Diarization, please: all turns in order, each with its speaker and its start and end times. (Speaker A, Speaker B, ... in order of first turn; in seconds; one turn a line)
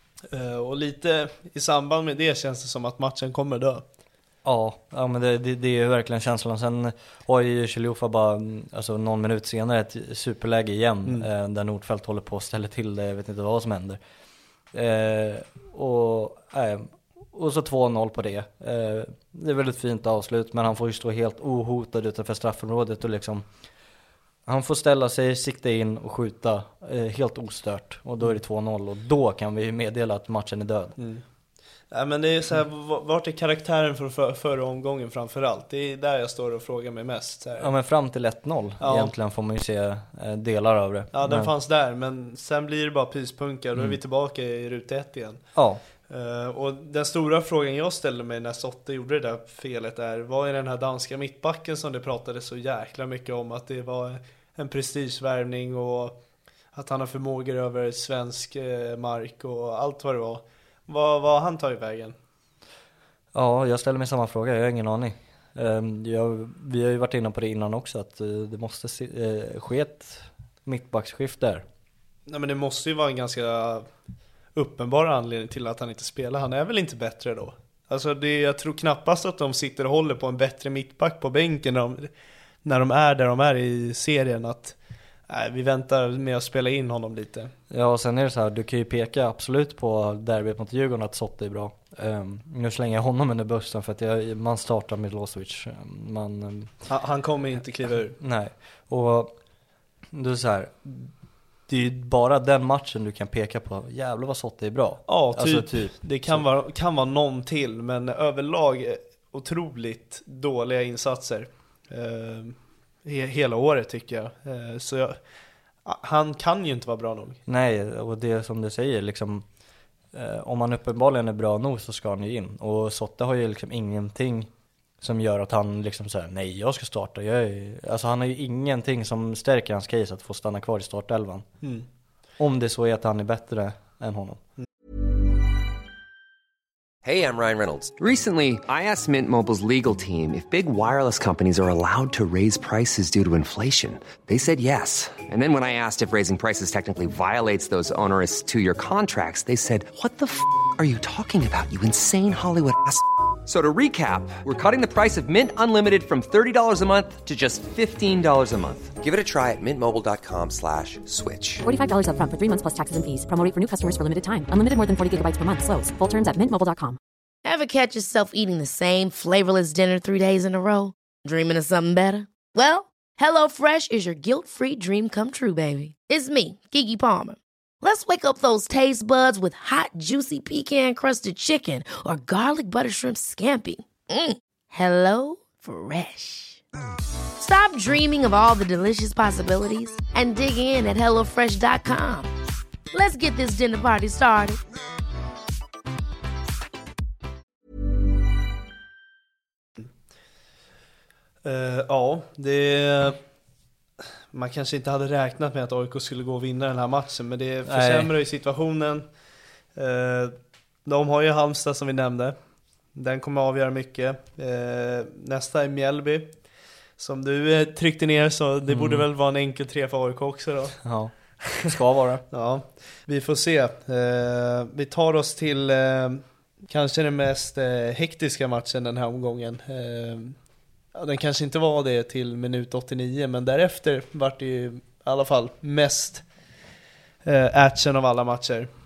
Speaker A: 0.3-3.8
Speaker B: 4.4-14.0
Speaker B: 14.7-23.4
Speaker B: 24.4-30.9
Speaker A: 31.0-31.2
Speaker A: 31.9-37.7
Speaker B: 37.6-41.5
Speaker A: 38.8-39.1
Speaker A: 41.1-45.4
Speaker B: 45.5-45.8
Speaker A: 46.1-56.2
Speaker A: 56.7-62.1
Speaker B: 63.3-71.6
Speaker A: 72.3-73.8
Speaker A: 74.5-82.1
Speaker A: 82.6-84.7
Speaker A: 85.3-87.5
Speaker B: 87.7-96.7
Speaker A: 96.9-98.2
Speaker B: 98.2-99.3
Speaker B: 100.1-101.1
Speaker B: 101.7-106.5
Speaker A: 105.1-115.2
Speaker A: 115.8-117.4
Speaker B: 117.5-119.5
Speaker B: 120.1-124.5
Speaker B: 125.0-131.5
Speaker B: 132.4-134.4
Speaker C: 137.0-161.6
Speaker D: 161.6-167.0
Speaker E: 167.4-186.6
Speaker E: 187.4-192.3
Speaker E: 192.9-194.6
Speaker A: 201.4-203.2
Speaker A: 204.3-209.1
Speaker B: 207.7-208.1
Speaker A: 209.7-212.3
Speaker A: 212.9-216.3
Speaker A: 217.0-220.8
Speaker B: 218.7-219.1
Speaker B: 220.8-222.2
Speaker A: 222.3-230.4
Speaker A: 230.9-236.2
Speaker A: 237.2-238.7